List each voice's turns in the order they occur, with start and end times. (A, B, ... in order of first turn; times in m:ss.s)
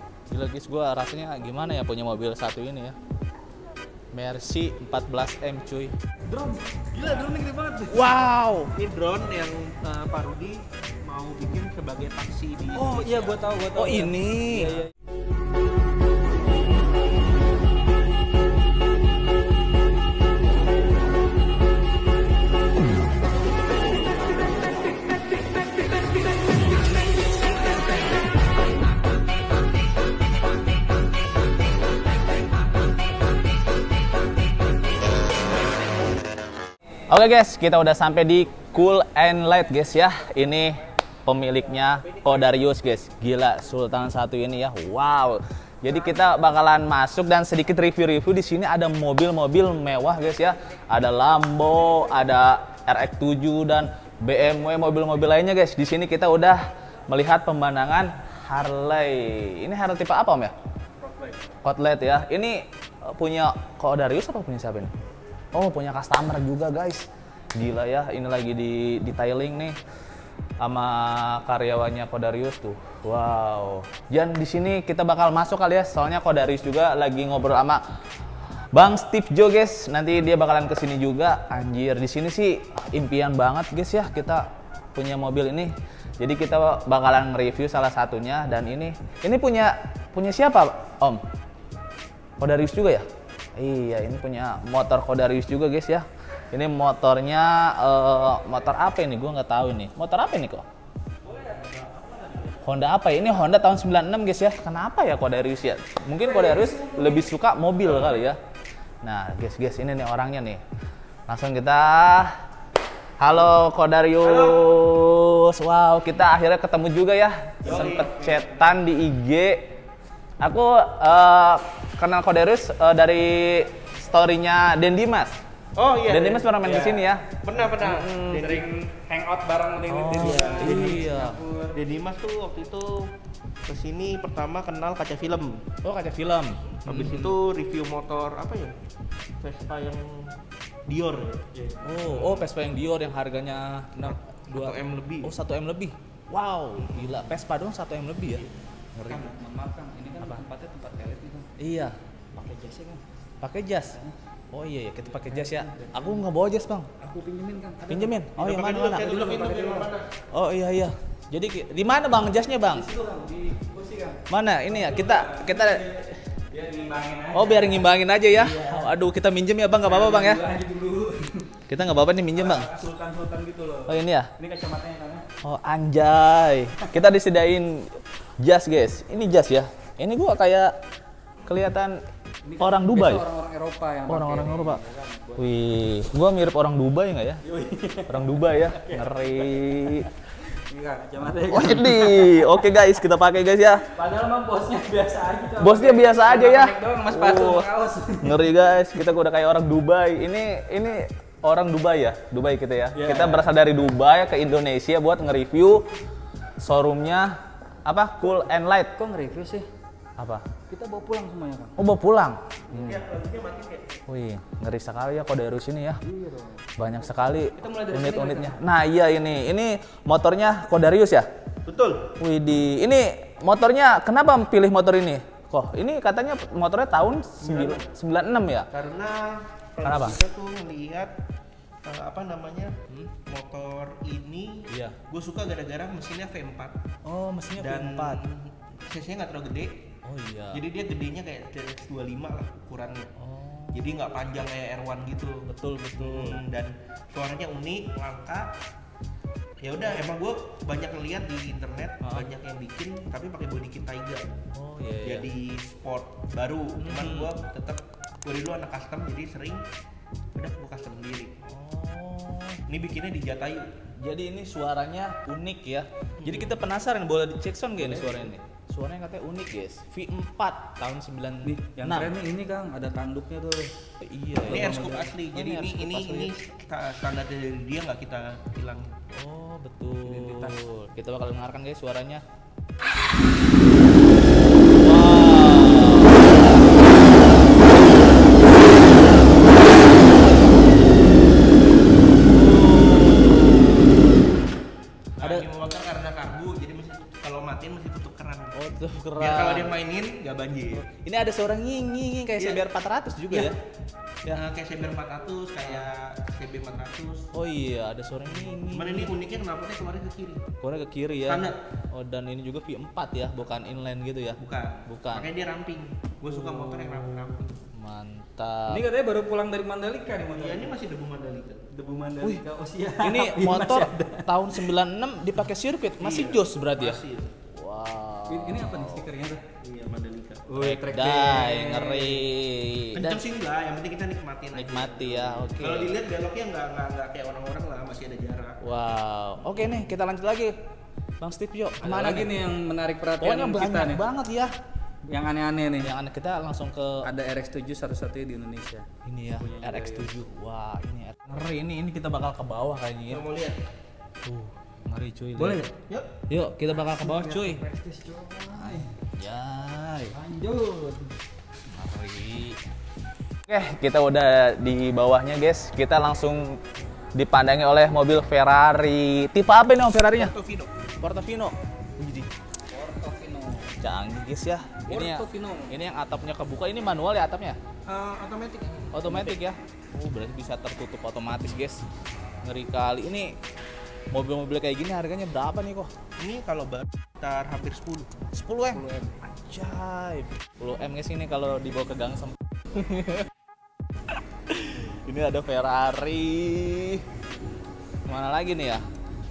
0:00.3-0:03.0 A
0:04.1-0:05.9 A
0:06.3-0:08.2 B
0:07.9-0:08.7 A
0:08.7-0:13.4 C
0:12.7-0:14.9 B
0:13.7-0:14.8 A
0:37.1-1:00.5 A
0:42.0-0:42.5 C
1:01.0-1:01.4 B
1:01.6-1:04.9 A
1:05.5-1:09.8 A
1:10.6-1:17.8 A
1:18.7-1:31.2 A
1:32.4-1:40.6 A
1:41.2-1:42.6 B
1:42.6-1:48.4 A
1:46.2-1:47.3 B
1:49.0-1:50.6 A
1:51.3-1:52.4 A
1:53.2-1:59.6 A
1:54.2-1:54.6 C
1:57.6-1:58.8 C
2:00.4-2:05.4 A
2:05.8-2:06.6 C
2:06.1-2:08.6 A
2:06.6-2:07.0 B
2:07.3-2:08.7 C
2:08.3-2:11.8 B
2:09.8-2:11.4 A
2:10.2-2:11.0 C
2:11.7-2:13.1 C
2:13.7-2:15.7 C
2:15.8-2:17.4 A
2:16.8-2:18.7 C
2:19.4-2:20.3 C
2:20.9-2:21.5 C
2:21.6-2:22.0 B
2:21.8-2:29.3 A
2:22.0-2:22.5 C
2:24.0-2:25.3 C
2:29.1-2:29.3 C
2:29.2-2:31.5 B
2:31.6-2:32.0 A
2:32.3-2:33.0 B
2:33.4-2:34.0 A
2:34.5-2:36.9 A
2:35.0-2:36.2 B
2:37.0-2:38.2 B
2:37.8-2:39.3 A
2:38.4-2:40.1 C
2:39.0-2:39.9 B
2:40.3-2:42.9 A
2:42.6-2:48.9 B
2:44.3-2:45.8 A
2:47.3-2:50.4 A
2:49.8-2:51.5 B
2:51.7-2:52.7 A
2:52.3-2:55.3 B
2:53.9-2:54.3 A
2:55.4-3:00.7 A
3:01.5-3:02.0 A
3:02.4-3:05.5 B
3:02.6-3:03.2 A
3:04.1-3:04.8 A
3:05.4-3:07.4 A
3:07.4-3:12.7 B
3:08.1-3:10.1 A
3:11.5-3:13.8 A
3:13.9-3:18.4 B
3:15.6-3:25.8 A
3:22.9-3:23.5 B
3:26.6-3:28.9 A
3:29.0-3:29.7 B
3:30.2-3:30.4 A
3:30.7-3:31.8 B
3:31.8-3:33.0 A
3:32.7-3:34.0 C
3:34.1-3:36.0 A
3:36.0-3:36.6 B
3:36.8-3:41.3 A
3:37.6-3:38.6 B
3:41.7-3:42.1 C
3:42.2-3:48.7 A
3:47.4-3:47.9 C
3:48.7-3:51.1 C
3:49.8-3:50.2 A
3:51.8-3:52.7 C
3:53.3-3:56.8 C
3:54.7-3:55.0 A
3:57.0-3:58.2 A
3:57.6-3:59.8 C
4:00.0-4:00.6 A
4:00.5-4:03.1 C
4:03.2-4:03.9 A
4:03.7-4:05.4 C
4:05.5-4:06.4 A
4:06.0-4:08.5 C
4:09.6-4:14.2 C
4:12.0-4:12.3 A
4:14.5-4:15.3 A
4:15.0-4:19.6 C
4:16.8-4:17.3 A
4:20.3-4:21.4 C
4:21.5-4:22.6 A
4:22.7-4:23.7 C
4:24.0-4:32.1 A
4:26.2-4:26.5 C
4:27.8-4:28.3 B
4:31.4-4:33.7 B
4:34.0-4:36.3 A
4:34.4-4:35.1 B
4:34.5-4:38.9 C
4:39.2-4:42.2 A
4:40.0-4:40.6 B
4:44.7-4:47.7 A
4:49.0-4:51.4 A
4:52.2-4:54.2 A
4:55.2-4:55.5 A
4:55.2-4:58.5 C
4:58.5-4:59.8 A
4:59.2-5:00.9 C
5:00.7-5:03.6 A
5:02.4-5:02.7 C
5:03.3-5:03.6 C
5:04.3-5:07.3 C
5:07.3-5:09.1 A
5:08.7-5:10.5 C
5:10.6-5:15.3 A
5:11.3-5:11.6 C
5:14.4-5:17.6 C
5:16.3-5:18.8 A
5:18.7-5:20.8 B
5:20.3-5:22.1 C
5:21.9-5:24.4 B
5:23.0-5:29.1 A
5:26.0-5:27.3 C
5:28.3-5:29.4 B
5:29.6-5:30.4 C
5:30.5-5:32.3 B
5:30.6-5:33.3 A
5:33.0-5:38.6 C
5:34.5-5:36.0 A
5:38.6-5:40.6 A
5:41.2-5:42.3 A
5:41.8-5:44.1 B
5:43.2-5:44.5 A
5:45.1-5:45.9 B
5:45.8-5:47.1 A
5:47.0-5:48.9 B
5:49.0-5:53.2 A
5:49.4-5:50.2 B
5:53.1-5:53.6 C
5:54.2-5:55.7 A
5:55.4-5:55.8 B
5:55.9-5:56.1 C
5:56.3-5:57.6 A
5:56.7-5:59.0 B
5:58.6-6:00.2 A
6:00.1-6:01.1 B
6:01.7-6:02.6 A
6:03.5-6:06.6 A
6:07.2-6:10.3 A
6:10.1-6:10.7 C
6:11.0-6:12.3 A
6:12.7-6:13.7 B
6:13.8-6:17.6 A
6:14.9-6:15.8 B
6:17.9-6:19.0 C
6:18.9-6:21.8 A
6:19.0-6:19.4 B
6:22.4-6:23.4 A
6:24.1-6:25.9 A
6:26.2-6:28.1 C
6:28.3-6:33.3 A
6:28.7-6:29.1 B
6:34.5-6:37.0 A
6:38.1-6:38.8 A